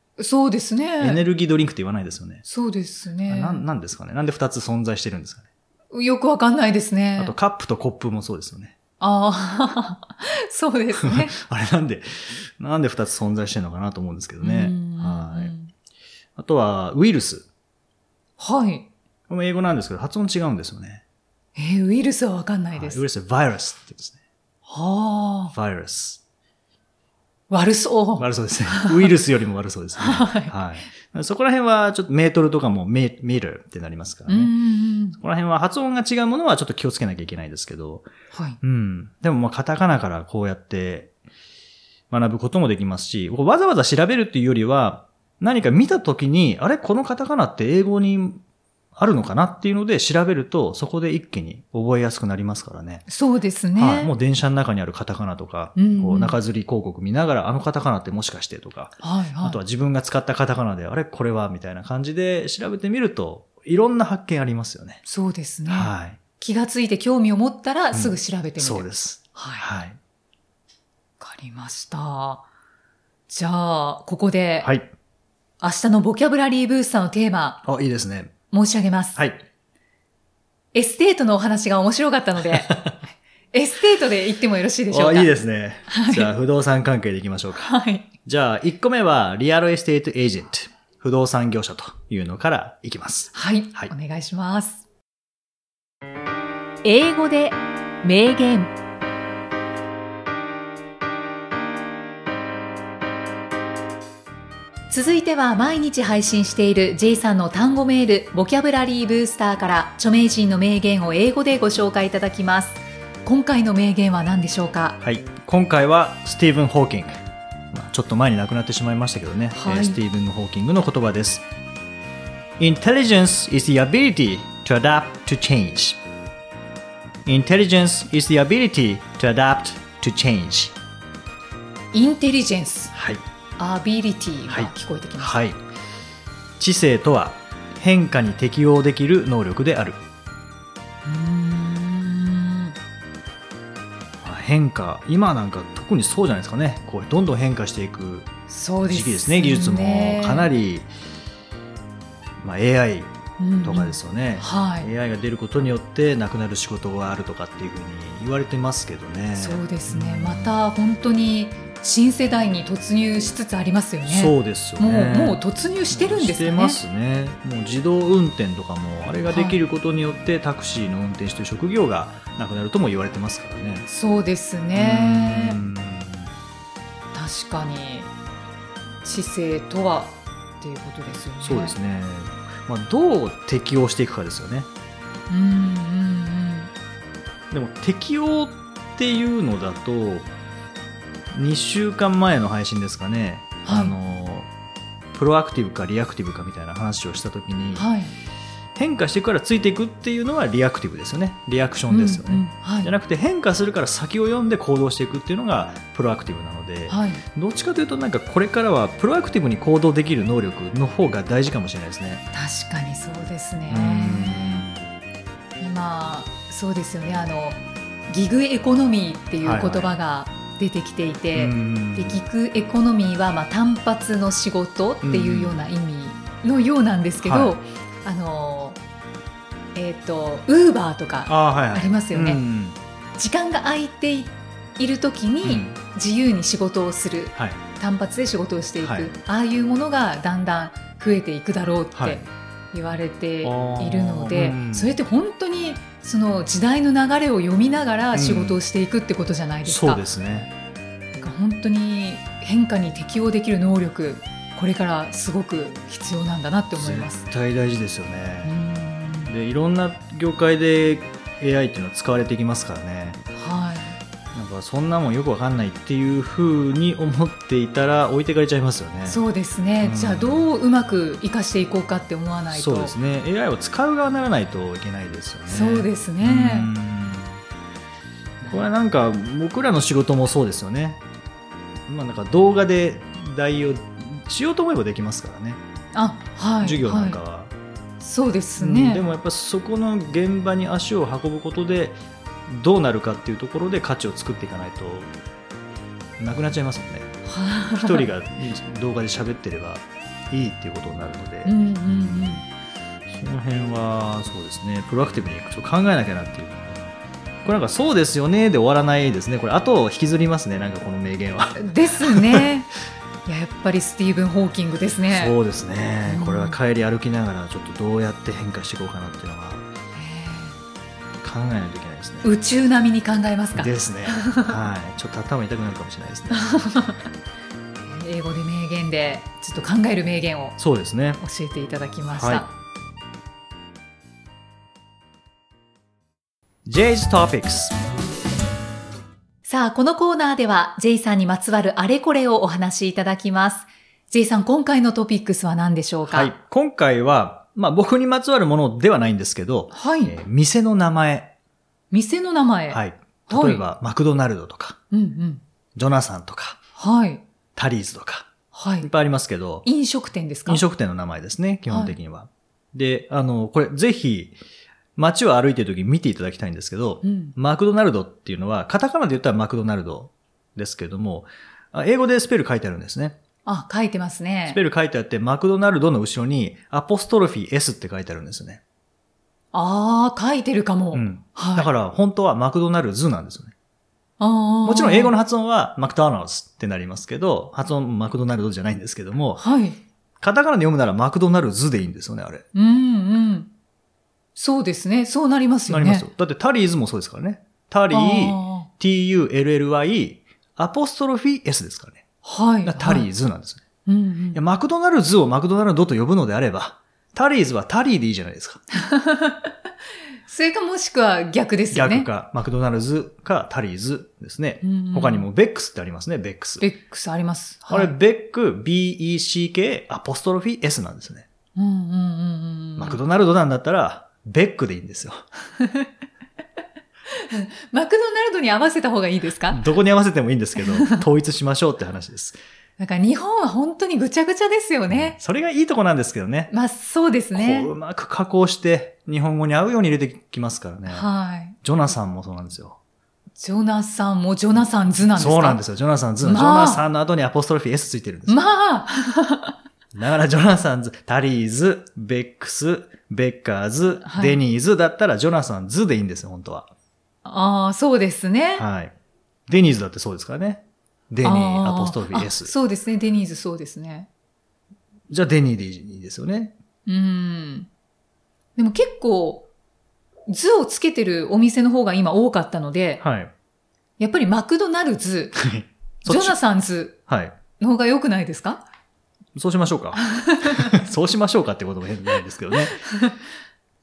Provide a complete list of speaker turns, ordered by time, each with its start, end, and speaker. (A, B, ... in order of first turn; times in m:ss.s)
0:00.2-0:01.2 A
0:01.0-0:02.4 B
0:02.4-0:03.6 A
0:03.3-0:05.5 B
0:05.9-0:07.3 A
0:07.2-0:08.8 B
0:09.0-0:11.3 A
0:11.0-0:15.5 B
0:14.4-0:15.7 A
0:16.4-0:17.5 B
0:18.4-0:18.9 A
0:19.3-0:21.0 B
0:21.6-0:23.0 A
0:22.7-0:24.2 B
0:24.6-0:25.5 A
0:25.5-0:26.2 B
0:27.5-0:29.0 A
0:28.2-0:34.5 B
0:30.0-0:30.5 A
0:34.3-0:35.2 A
0:35.2-0:38.1 B
0:38.3-0:38.6 A
0:38.6-0:41.1 B
0:42.1-0:48.4 B
0:49.0-0:53.0 B
0:53.1-0:54.1 A
0:53.7-1:05.0 B
0:55.8-0:56.4 A
0:59.0-0:59.6 A
1:05.0-1:09.6 A
1:05.7-1:06.2 B
1:07.9-1:10.0 B
1:11.2-1:12.4 A
1:13.3-1:14.7 A
1:14.6-1:14.9 B
1:15.6-1:17.6 A
1:17.6-1:18.3 B
1:18.5-1:19.2 A
1:19.2-1:19.4 B
1:20.7-1:22.8 A
1:22.7-1:22.9 B
1:23.5-1:25.3 A
1:24.9-1:27.7 B
1:25.9-1:26.3 A
1:27.6-1:28.1 A
1:28.2-1:33.9 B
1:33.3-1:34.8 A
1:36.8-1:38.7 A
1:44.9-1:55.0 A
1:55.0-2:01.4 B
1:59.5-2:00.0 A
2:02.6-2:06.0 B
2:07.2-2:10.8 B
2:11.9-2:12.9 A
2:12.9-2:13.2 B
2:13.6-2:15.4 A
2:14.5-2:15.6 B
2:16.6-2:20.0 B
2:21.0-2:22.7 A
2:24.2-2:28.3 B
2:28.5-2:30.5 A
2:28.9-2:30.9 B
2:32.4-2:40.6 B
2:33.4-2:34.9 A
2:39.4-2:46.8 A
2:44.0-2:53.8 B
2:49.3-2:49.6 A
2:53.9-2:55.6 A
2:54.7-2:56.3 B
2:57.1-2:58.1 A
2:59.0-3:01.8 A
3:01.4-3:04.7 B
3:05.3-3:06.7 A
3:07.5-3:10.3 B
3:11.3-3:14.5 B
3:13.6-3:13.9 A
3:15.1-3:17.8 B
3:17.7-3:18.1 A
3:18.7-3:32.2 B
3:21.9-3:22.9 A
3:26.9-3:27.2 A
3:32.3-3:34.7 A
3:33.7-3:34.8 B
3:35.6-3:48.8 A
3:39.4-3:39.9 B
3:41.3-3:42.2 B
3:45.0-3:45.6 B
3:47.2-3:47.6 B
3:49.7-3:52.4 A
3:51.2-3:52.8 B
3:53.2-4:02.2 A
3:55.4-3:55.8 B
3:57.3-3:57.6 B
3:58.8-3:59.1 B
4:01.9-4:02.3 B
4:02.7-4:10.0 A
4:03.4-4:05.0 B
4:08.1-4:08.6 B
4:09.6-4:10.5 B
4:11.2-4:17.2 A
4:16.7-4:18.5 B
4:18.4-4:19.3 A
4:19.3-4:23.2 B
4:23.3-4:24.0 A
4:24.3-4:29.2 B
4:29.1-4:32.9 A
4:29.8-4:30.5 B
4:32.5-4:37.4 B
4:35.5-4:36.7 A
4:38.4-4:41.0 B
4:41.9-4:45.6 B
4:45.9-4:47.2 A
4:46.6-4:47.5 B
4:48.0-4:49.1 A
4:48.6-4:55.1 B
4:56.2-4:57.1 B
4:57.2-4:58.1 A
4:57.7-5:02.5 B
5:01.4-5:02.4 A
5:03.1-5:12.5 B
5:11.6-5:12.7 A
5:13.2-5:15.3 A
5:15.1-5:19.6 B
5:16.1-5:16.6 A
5:19.9-5:20.6 A
5:21.2-5:22.3 B
5:22.2-5:24.5 A
5:23.6-5:26.7 B
5:26.3-5:27.1 A
5:27.9-5:30.6 A
5:30.6-5:31.2 B
5:31.2-5:32.5 A
5:32.2-5:32.4 B
5:36.6-5:37.8 B
5:39.4-5:46.3 A
5:46.1-5:51.3 B
5:49.7-5:50.1 A
5:51.9-5:53.6 A
5:52.7-5:54.8 B
5:54.9-5:55.4 A
5:55.7-5:56.6 B
5:56.8-5:57.2 A
5:57.6-5:58.3 B
5:58.5-5:58.9 A
5:58.8-5:59.6 B
5:59.6-6:00.6 A
6:00.5-6:04.4 B
6:01.7-6:01.9 A
6:05.0-6:13.2 B
6:07.0-6:07.4 A
6:13.4-6:14.6 A
6:14.5-6:18.6 B
6:19.5-6:21.7 A
6:20.9-6:23.5 B
6:24.2-6:25.1 A
6:24.6-6:29.4 B
6:29.4-6:29.8 A
6:30.2-6:32.4 B
6:32.5-6:33.5 A
6:34.4-6:36.0 A
6:35.7-6:42.0 B
6:37.9-6:38.7 A
6:42.2-6:43.1 A
6:42.6-6:43.6 B
6:43.8-6:44.4 A
6:44.3-6:48.6 B
6:48.7-6:49.5 A
6:50.3-6:52.1 A
6:51.7-6:56.6 B
6:54.6-6:55.3 A
6:56.6-6:57.9 A
6:57.7-7:01.3 B
7:01.6-7:03.0 A
7:02.8-7:05.2 B
7:05.6-7:05.9 A
7:07.1-7:09.7 A
7:09.5-7:12.4 B
7:10.6-7:11.0 A
7:12.8-7:15.2 A
7:14.9-7:16.5 B
7:16.5-7:17.7 A
7:17.3-7:21.1 B
7:20.9-7:21.6 A
7:21.6-7:22.8 B
7:23.4-7:25.6 A
7:25.1-7:28.4 B
7:26.2-7:26.8 A
7:28.3-7:29.6 A
7:29.9-7:36.7 B
7:34.0-7:34.4 A
7:37.2-7:38.6 A
7:38.6-7:38.9 B
7:39.5-7:42.5 B
7:41.2-7:44.1 A
7:45.1-7:46.5 B
7:46.8-7:47.7 A
7:48.6-7:49.5 A
7:50.3-7:53.0 A
7:53.0-7:53.3 B
7:54.0-7:55.4 A
7:55.3-7:56.4 B
7:56.0-7:57.0 A
7:57.1-7:57.4 B
7:57.6-7:58.6 A
7:59.3-8:02.8 B
8:00.0-8:00.8 A
8:02.8-8:03.2 A